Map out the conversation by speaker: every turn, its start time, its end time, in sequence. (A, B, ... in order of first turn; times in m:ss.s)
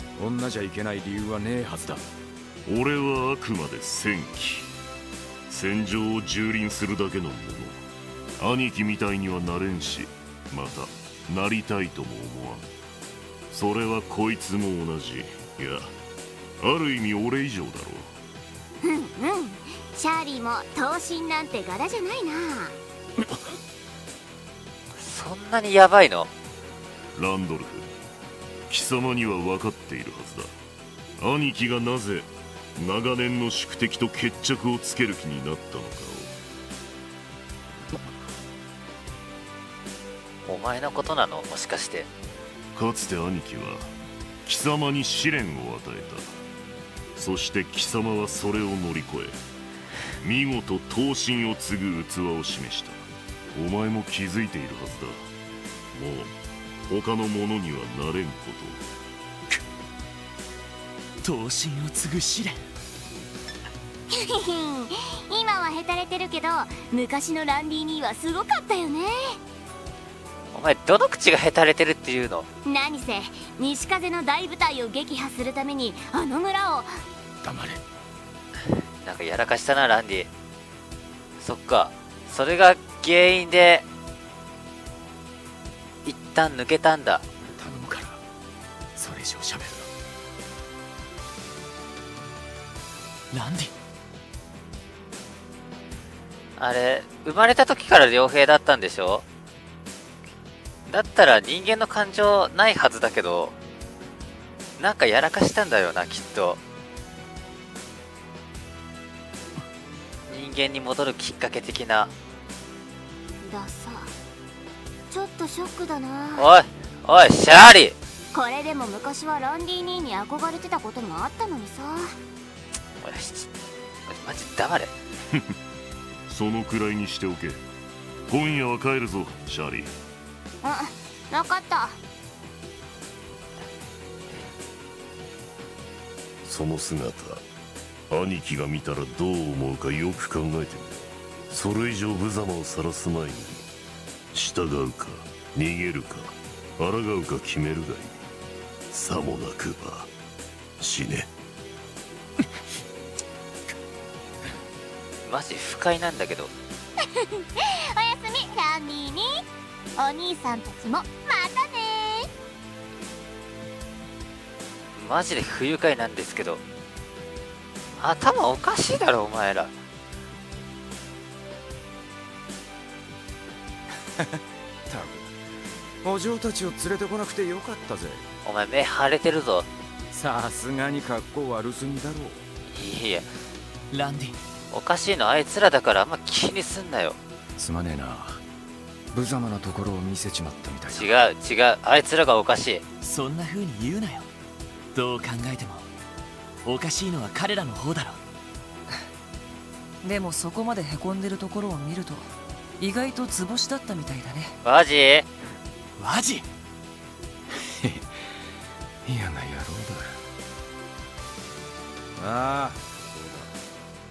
0:00.2-0:02.0 A
0:02.6-0:04.7 B
0:05.5-0:07.8 B
0:08.4-0:12.7 B
0:13.5-0:15.9 B
0:16.6-0:18.1 B
0:18.8-0:22.8 C
0:25.0-0:26.3 D
0:27.2-0:27.9 B
0:28.7-0:30.5 B
0:31.2-0:36.3 B
0:40.5-0:42.1 D
0:42.8-0:43.9 B
0:44.5-0:46.3 B
0:47.2-0:49.4 B
0:50.2-0:55.3 B
0:55.9-0:56.3 B
0:56.9-0:58.8 B
1:01.2-1:02.6 E
1:04.1-1:09.4 C
1:10.5-1:12.5 D
1:12.6-1:17.0 C
1:17.4-1:17.8 A
1:19.0-1:20.3 D
1:21.4-1:23.8 D
1:26.0-1:27.2 D
1:27.6-1:28.2 A
1:29.0-1:29.9 A
1:33.3-1:33.7 E
1:36.6-1:39.2 D
1:40.9-1:43.5 D
1:44.8-1:46.6 D
1:50.3-1:52.1 D
1:53.4-1:54.1 C
1:55.1-1:56.5 C
1:56.4-1:58.0 D
1:58.3-2:02.2 C
2:03.0-2:03.5 D
2:04.1-2:04.9 D
2:06.3-2:07.6 B
2:08.3-2:09.9 B
2:10.6-2:12.0 C
2:16.4-2:17.4 B
2:18.1-2:23.6 B
2:24.3-2:28.2 B
2:28.9-2:30.1 B
2:30.8-2:31.3 B
2:35.2-2:36.5 D
2:37.0-2:39.4 C
2:40.0-2:42.3 C
2:45.0-2:46.6 D
2:48.0-2:49.7 D
2:54.3-2:55.3 A
2:56.0-2:58.2 A
2:58.4-2:59.7 D
3:00.1-3:02.4 A
3:02.8-3:03.3 D
3:03.9-3:04.4 E
3:04.7-3:07.2 D
3:07.6-3:08.4 A
3:09.1-3:11.2 A
3:10.9-3:12.8 D
3:13.0-3:14.3 E
3:14.9-3:15.9 E
3:16.6-3:18.2 E
3:20.0-3:24.6 F
3:24.6-3:25.3 D
3:26.0-3:26.5 E
3:27.7-3:28.1 A
3:29.0-3:30.2 A
3:32.2-3:33.5 A